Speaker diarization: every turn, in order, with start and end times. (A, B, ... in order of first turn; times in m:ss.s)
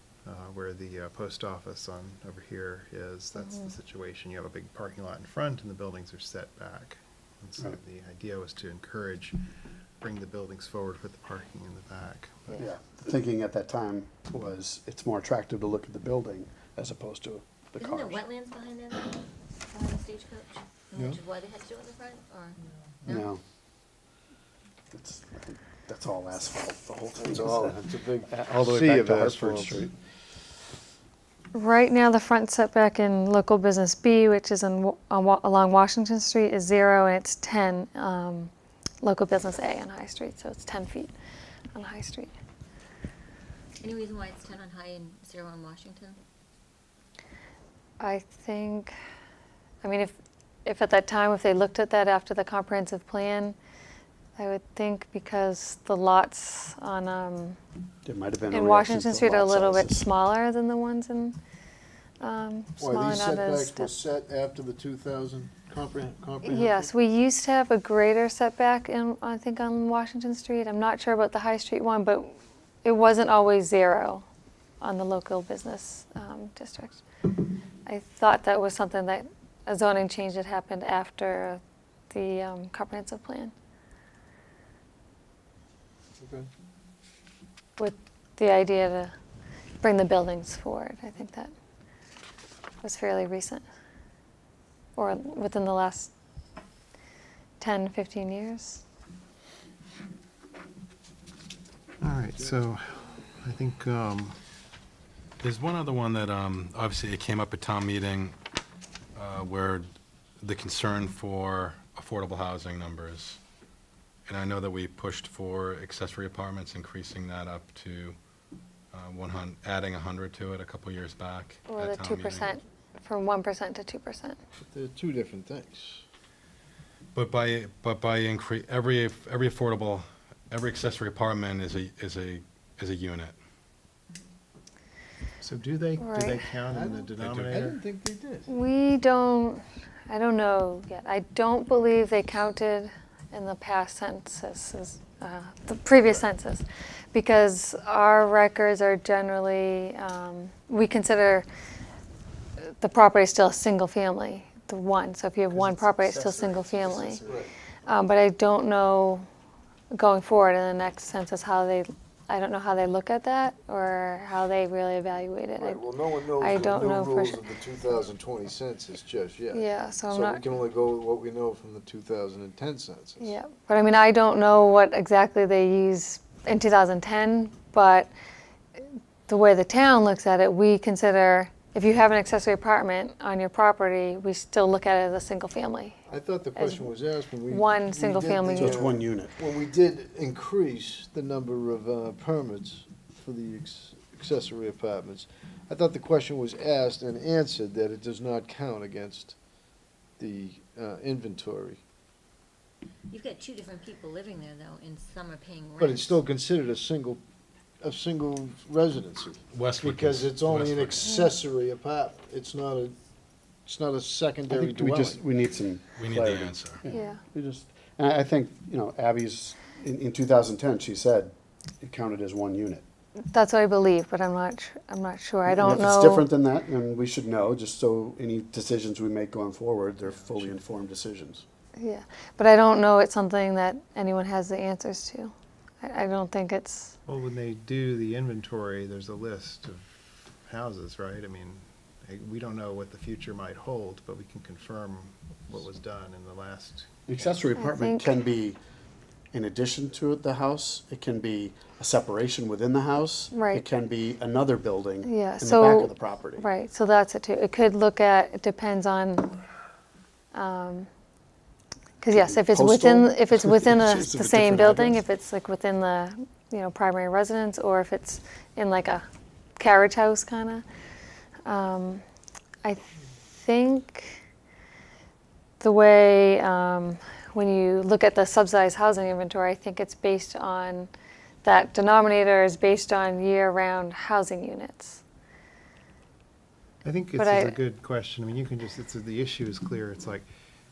0:00.2-0:09.4 A
0:03.4-0:03.7 B
0:10.0-0:12.7 A
0:12.6-0:18.2 C
0:17.8-0:23.3 D
0:23.1-0:23.4 C
0:24.9-0:29.9 C
0:27.2-0:29.9 E
0:31.5-0:38.5 B
0:39.0-0:41.1 B
0:41.7-0:42.3 B
0:43.8-0:46.2 D
0:48.0-0:48.9 B
0:49.8-0:50.1 B
0:50.6-0:53.6 B
0:54.4-0:57.6 B
0:58.0-1:00.0 C
0:58.5-1:01.4 B
1:02.2-1:03.9 B
1:02.8-1:06.9 E
1:06.4-1:14.2 B
1:14.8-1:17.0 B
1:17.9-1:23.5 B
1:26.2-1:26.5 E
1:27.8-1:29.1 B
1:29.8-1:31.5 B
1:32.8-1:33.6 B
1:35.0-1:36.1 B
1:37.6-1:38.8 B
1:42.0-1:44.4 A
1:45.4-1:48.4 F
1:49.2-1:49.9 F
1:50.4-1:53.4 F
1:54.3-1:58.2 F
1:58.9-2:02.6 F
2:01.7-2:04.4 B
2:04.7-2:06.0 E
2:07.1-2:13.4 F
2:15.4-2:17.8 A
2:16.0-2:16.5 B
2:16.7-2:18.5 E
2:17.2-2:17.7 F
2:18.5-2:31.5 B
2:32.8-2:37.2 B
2:35.6-2:37.3 C
2:37.2-2:37.5 E
2:37.9-2:39.2 B
2:39.9-2:45.8 B
2:45.6-2:53.4 E
2:46.4-2:47.4 B
2:49.5-2:50.4 B
2:53.2-2:58.1 B
2:59.3-3:06.0 B
3:06.1-3:19.4 E
3:06.6-3:06.9 B
3:07.5-3:08.8 B
3:08.6-3:09.4 C
3:20.2-3:21.8 E
3:23.1-3:26.2 D
3:25.8-3:27.2 E
3:27.8-3:33.0 E
3:29.5-3:31.2 F
3:33.6-3:35.2 E
3:34.5-3:42.8 C
3:36.0-3:36.8 F
3:36.9-3:37.2 B
3:43.3-3:46.3 B
3:45.5-3:51.4 C
3:50.0-3:50.6 A
3:51.8-3:57.0 B
3:57.1-4:07.4 A
4:07.1-4:08.6 C
4:07.6-4:08.2 B
4:09.3-4:16.5 C
4:13.3-4:13.6 B
4:15.0-4:19.3 B
4:20.3-4:20.9 B
4:22.0-4:29.0 B
4:22.1-4:25.0 C
4:29.6-4:30.6 B
4:31.5-4:32.0 B
4:32.6-4:34.2 B
4:35.6-4:40.9 B
4:41.4-4:45.0 B
4:46.8-4:50.3 A
4:47.2-4:47.6 B